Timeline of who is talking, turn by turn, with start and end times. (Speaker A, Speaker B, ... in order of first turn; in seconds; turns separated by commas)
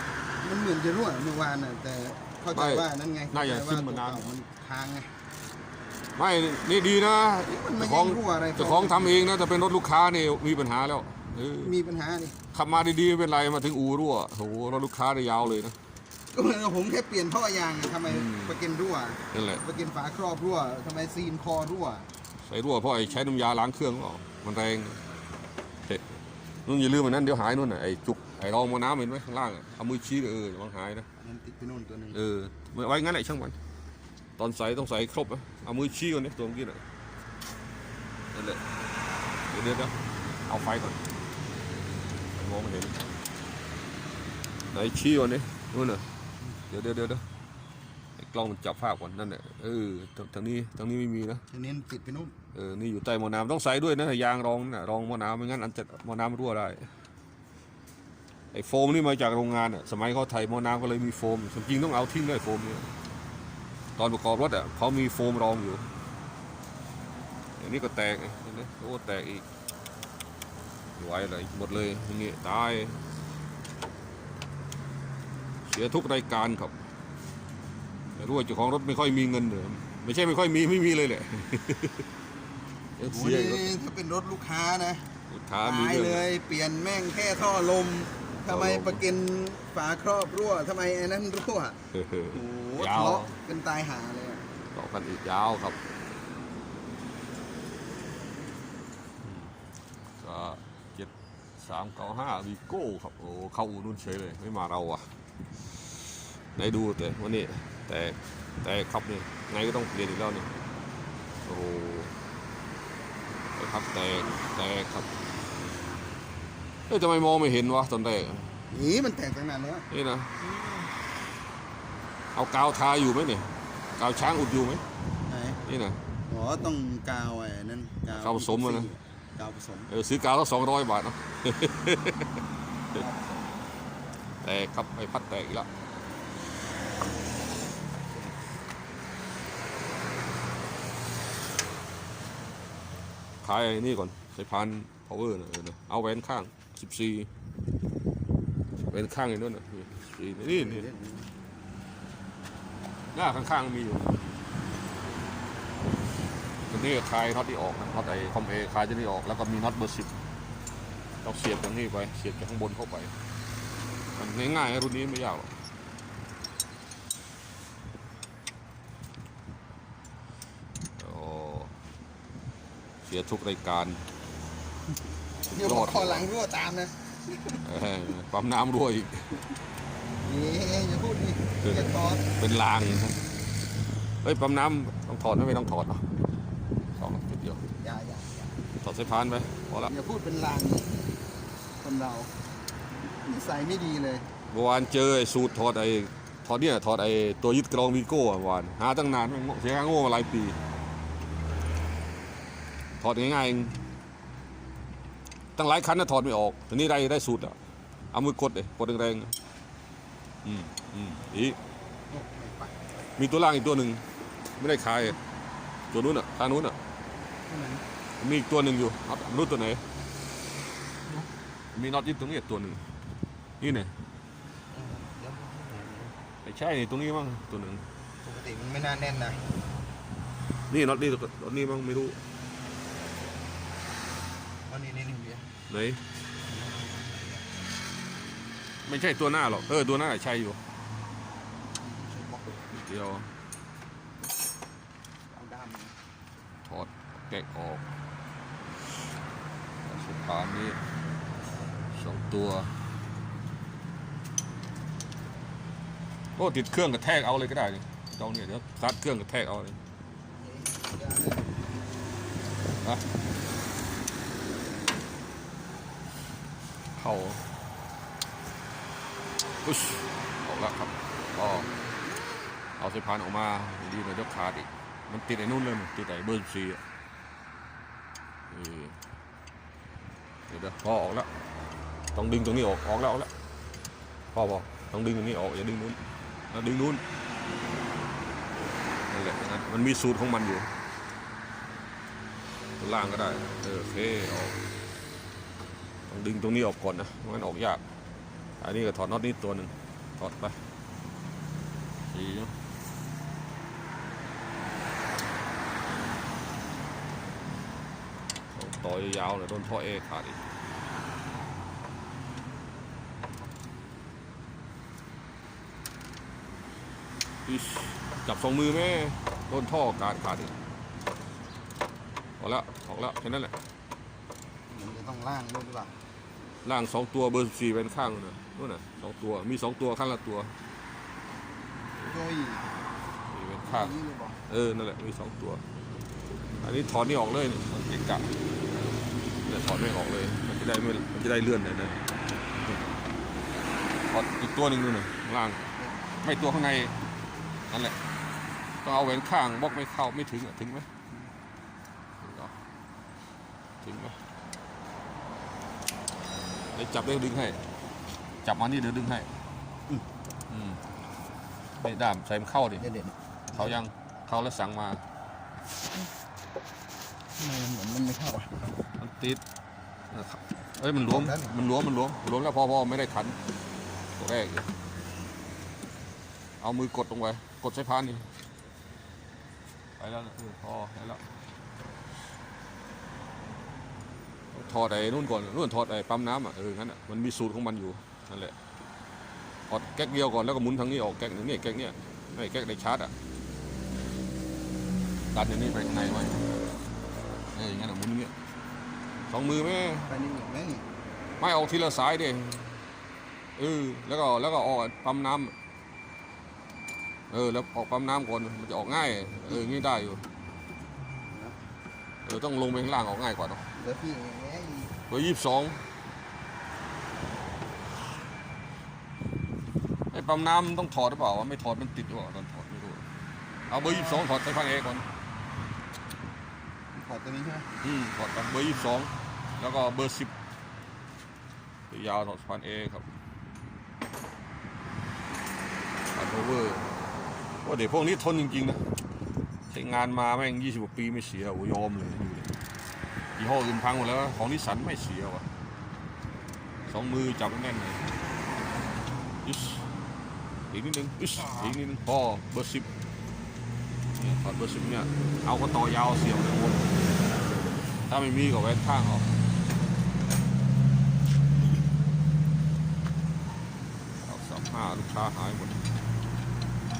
Speaker A: 0.4-5.2, Speaker B: 2.5-4.3, Speaker B: 6.2-11.7, Speaker A: 7.5-9.2, Speaker A: 11.6-12.4, Speaker B: 12.5-15.8, Speaker A: 16.3-22.1, Speaker B: 18.1-18.6, Speaker B: 19.3-19.6, Speaker B: 22.4-25.0, Speaker B: 26.6-31.1, Speaker A: 31.1-32.2, Speaker B: 32.1-33.6, Speaker B: 34.4-36.8, Speaker B: 38.3-38.6, Speaker B: 39.5-39.9, Speaker B: 40.5-41.0, Speaker B: 42.3-43.0, Speaker B: 44.7-46.1, Speaker B: 46.7-47.2, Speaker B: 48.2-51.4, Speaker A: 51.5-52.4, Speaker B: 52.5-56.9, Speaker B: 58.5-62.9, Speaker B: 64.0-65.9, Speaker B: 67.6-69.4, Speaker B: 71.0-73.0, Speaker B: 75.7-76.8, Speaker B: 78.1-82.1, Speaker B: 83.0-83.8, Speaker A: 83.0-91.8, Speaker B: 85.3-86.3, Speaker B: 88.5-89.0, Speaker B: 91.9-93.4, Speaker A: 92.3-94.5, Speaker B: 94.7-95.8, Speaker B: 99.2-99.5, Speaker B: 100.2-105.1, Speaker B: 106.5-110.5, Speaker B: 111.4-112.1, Speaker B: 113.5-115.1, Speaker B: 116.9-118.7, Speaker A: 118.7-119.9, Speaker B: 119.9-120.8, Speaker B: 122.3-124.8, Speaker A: 125.2-125.6, Speaker B: 125.6-126.1, Speaker A: 126.2-129.9, Speaker B: 128.2-128.9, Speaker B: 129.9-133.0, Speaker A: 133.0-133.5, Speaker B: 134.4-135.7, Speaker B: 143.4-147.3, Speaker B: 148.8-150.9, Speaker A: 150.8-151.3, Speaker B: 153.1-154.3, Speaker B: 156.7-160.2, Speaker B: 161.2-163.1, Speaker B: 164.1-165.5, Speaker B: 171.0-171.7, Speaker B: 173.0-174.0, Speaker A: 175.5-177.7, Speaker B: 175.6-176.3, Speaker B: 177.6-179.4, Speaker A: 180.2-182.3, Speaker B: 181.6-183.2, Speaker B: 184.2-186.1, Speaker B: 186.9-187.7, Speaker A: 187.8-188.5, Speaker B: 188.8-189.9, Speaker A: 189.8-191.0, Speaker A: 191.8-192.3, Speaker A: 192.9-194.3, Speaker B: 194.5-200.6, Speaker B: 203.0-203.8, Speaker B: 205.6-207.6, Speaker B: 208.1-209.3, Speaker B: 210.4-211.6, Speaker A: 212.1-212.9, Speaker B: 213.2-214.0, Speaker B: 214.6-215.2, Speaker B: 215.9-216.8, Speaker A: 217.4-217.8, Speaker B: 218.2-219.8, Speaker B: 221.7-222.8, Speaker B: 223.6-223.9, Speaker A: 224.7-226.2, Speaker B: 226.4-227.9, Speaker A: 228.2-229.5, Speaker B: 230.7-232.2, Speaker A: 234.7-235.5, Speaker B: 235.7-236.0, Speaker A: 236.4-237.4, Speaker B: 238.8-240.6, Speaker A: 241.8-242.7, Speaker B: 242.7-243.3, Speaker A: 245.3-245.9, Speaker B: 246.6-247.8, Speaker B: 249.8-250.8, Speaker B: 251.9-252.8, Speaker B: 256.4-259.8, Speaker A: 260.4-261.8, Speaker B: 266.9-267.4, Speaker B: 269.6-271.7, Speaker B: 272.8-276.8, Speaker B: 278.5-279.0, Speaker B: 280.5-281.3, Speaker B: 282.1-283.3, Speaker B: 284.3-287.0, Speaker B: 289.1-290.7, Speaker B: 292.8-294.6, Speaker B: 296.1-297.8, Speaker B: 298.6-300.6, Speaker B: 302.1-302.5, Speaker B: 308.5-310.4, Speaker B: 317.4-320.5, Speaker B: 322.4-323.6, Speaker A: 324.7-326.0, Speaker B: 326.6-330.5, Speaker A: 332.0-332.7, Speaker B: 333.3-333.9, Speaker A: 333.7-334.4, Speaker B: 334.5-335.6, Speaker B: 336.6-338.4, Speaker B: 339.4-342.0, Speaker B: 344.0-345.7, Speaker B: 346.2-347.0, Speaker B: 347.7-348.0, Speaker B: 348.8-350.9, Speaker B: 352.2-352.6, Speaker B: 353.8-354.1, Speaker B: 356.7-357.6, Speaker B: 358.4-359.3, Speaker B: 360.5-360.8, Speaker B: 361.8-362.8, Speaker A: 362.8-363.8, Speaker B: 363.5-365.0, Speaker A: 367.3-368.8, Speaker B: 369.0-369.4, Speaker B: 370.1-373.4, Speaker A: 371.1-371.5, Speaker B: 374.2-374.7, Speaker B: 376.6-378.3, Speaker B: 380.0-381.2, Speaker B: 384.5-388.5, Speaker B: 389.7-393.1, Speaker B: 395.3-396.5, Speaker B: 397.5-398.3, Speaker B: 399.3-400.1, Speaker A: 400.1-400.9, Speaker B: 401.4-402.8, Speaker B: 403.6-405.5, Speaker B: 407.3-410.2, Speaker A: 411.1-411.6, Speaker B: 412.2-413.7, Speaker A: 413.7-415.0, Speaker B: 415.0-415.8, Speaker B: 420.1-423.0, Speaker B: 423.7-425.1, Speaker A: 423.8-424.2, Speaker A: 426.9-427.7, Speaker B: 427.8-430.3, Speaker B: 431.9-433.1, Speaker B: 436.1-436.9, Speaker B: 437.6-438.8, Speaker B: 439.7-442.5, Speaker B: 443.4-445.5, Speaker B: 446.9-448.1, Speaker B: 449.4-449.9, Speaker B: 450.7-452.9, Speaker B: 454.2-457.1, Speaker B: 458.1-459.3, Speaker B: 464.2-465.8